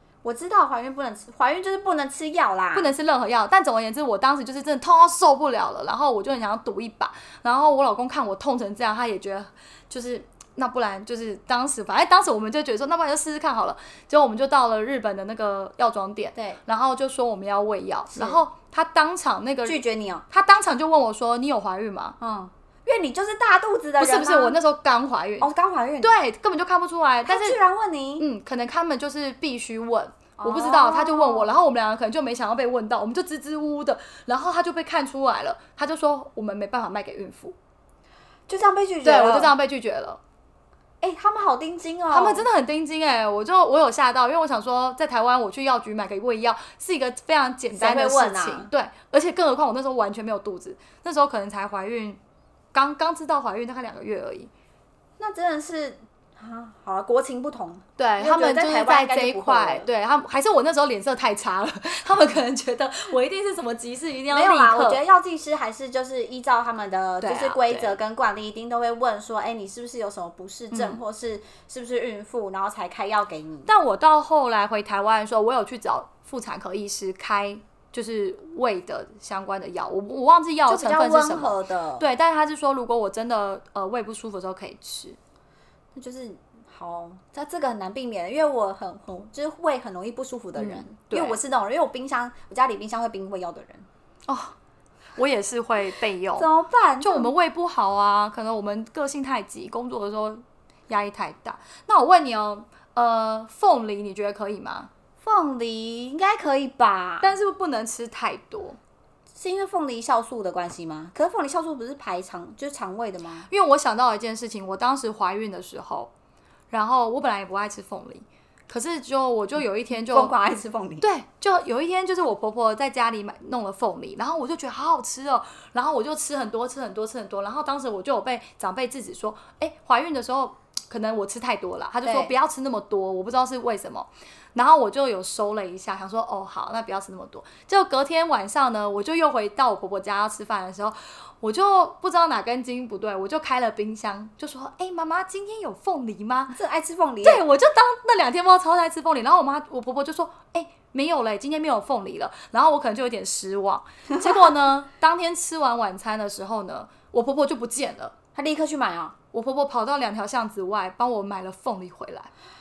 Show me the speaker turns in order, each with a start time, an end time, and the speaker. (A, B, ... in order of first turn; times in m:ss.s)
0:00.2-0:02.9 A
0:02.7-0:22.2 B
0:18.1-0:18.4 A
0:19.7-0:20.2 A
0:22.2-0:24.6 A
0:24.0-0:25.5 B
0:25.4-0:26.1 A
0:26.0-0:27.6 B
0:27.3-0:28.3 A
0:28.2-0:37.6 B
0:30.4-0:31.5 A
0:38.5-0:39.5 A
0:39.0-0:40.2 B
0:41.0-0:42.4 A
0:42.1-0:52.2 B
0:47.7-0:48.7 A
0:52.7-0:54.5 B
0:55.2-0:59.9 A
0:58.0-1:05.0 B
1:04.3-1:13.7 A
1:07.2-1:08.0 B
1:10.7-1:11.0 B
1:13.7-1:25.2 B
1:20.7-1:22.1 A
1:26.0-1:33.9 A
1:30.6-1:31.4 B
1:34.3-1:34.6 B
1:35.2-1:36.5 B
1:36.4-1:37.3 A
1:37.0-1:44.9 B
1:45.2-1:47.4 A
1:47.2-1:48.8 B
1:49.4-1:53.5 A
1:53.5-1:56.1 B
1:56.7-2:00.3 B
2:00.0-2:01.1 A
2:01.0-2:26.6 B
2:12.0-2:12.3 A
2:26.5-2:27.4 A
2:27.2-2:38.1 B
2:38.4-2:39.2 A
2:39.3-2:42.3 B